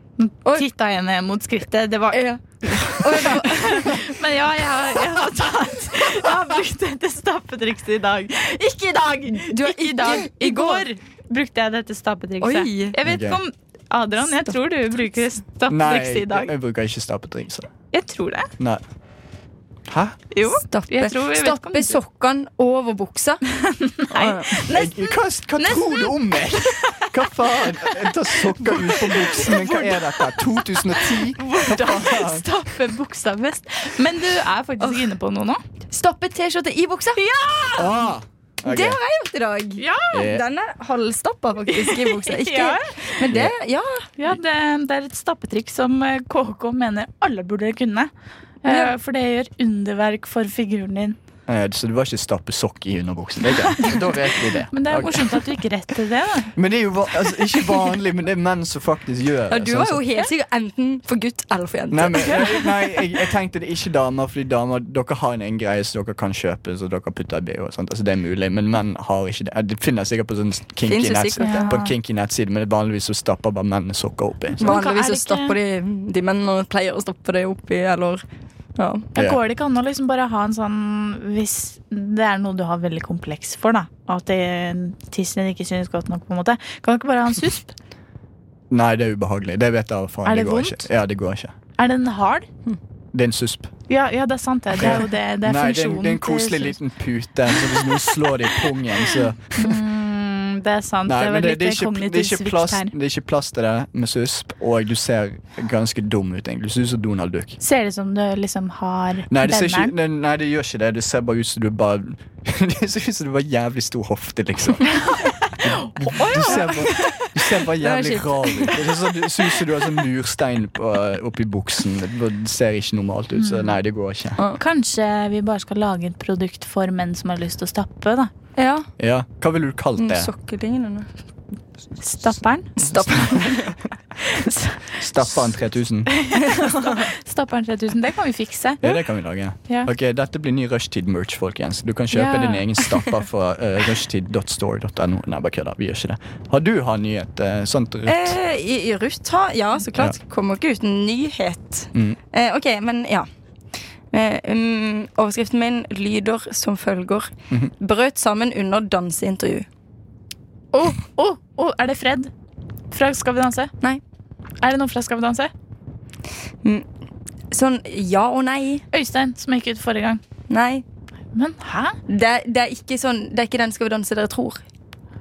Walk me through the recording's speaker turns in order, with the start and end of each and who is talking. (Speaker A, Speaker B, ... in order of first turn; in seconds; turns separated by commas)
Speaker A: 0.2-16.5, Speaker B: 2.1-4.0, Speaker B: 9.3-10.9, Speaker B: 12.4-12.9, Speaker C: 13.0-13.4, Speaker C: 15.7-17.7, Speaker A: 17.9-18.5, Speaker C: 19.9-20.2, Speaker A: 20.3-22.0, Speaker B: 20.7-23.4, Speaker A: 23.5-27.2, Speaker B: 24.1-24.6, Speaker C: 24.5-32.5, Speaker A: 27.7-35.6, Speaker B: 34.8-35.0, Speaker B: 35.9-37.2, Speaker A: 37.2-38.0, Speaker C: 37.7-39.0, Speaker B: 38.6-44.1, Speaker A: 39.8-40.3, Speaker C: 40.1-40.4, Speaker A: 41.7-43.2, Speaker A: 44.2-48.1, Speaker A: 48.6-51.1, Speaker B: 48.7-48.9, Speaker C: 51.5-55.4, Speaker A: 53.8-54.1, Speaker A: 54.7-56.5, Speaker C: 56.5-60.0, Speaker B: 59.5-62.6, Speaker C: 61.9-74.7, Speaker B: 70.8-71.7, Speaker A: 71.4-71.9, Speaker B: 74.6-78.2, Speaker A: 74.6-75.5, Speaker B: 78.8-79.1, Speaker A: 79.1-87.7, Speaker C: 88.7-91.5, Speaker A: 90.2-90.9, Speaker A: 91.8-92.5, Speaker C: 93.1-93.7, Speaker A: 93.9-96.8, Speaker C: 94.8-99.8, Speaker A: 99.6-102.9, Speaker C: 101.0-107.6, Speaker A: 107.6-109.9, Speaker C: 109.3-115.0, Speaker A: 115.1-116.9, Speaker C: 115.6-124.4, Speaker B: 116.5-118.8, Speaker A: 123.3-123.8, Speaker A: 124.6-128.3, Speaker B: 128.6-128.9, Speaker C: 129.0-130.3, Speaker B: 130.0-131.1, Speaker A: 132.0-132.8, Speaker B: 132.8-133.8, Speaker C: 132.9-133.5, Speaker A: 134.2-135.2, Speaker C: 135.0-136.1, Speaker A: 136.1-139.0, Speaker B: 136.3-137.1, Speaker C: 138.8-148.3, Speaker A: 142.1-142.8, Speaker B: 148.1-153.3, Speaker B: 154.1-159.7, Speaker A: 160.7-162.3, Speaker A: 162.9-163.7, Speaker A: 164.6-165.5, Speaker B: 167.5-168.8, Speaker A: 168.9-170.2, Speaker B: 170.5-170.8, Speaker A: 171.3-172.0, Speaker B: 172.1-174.6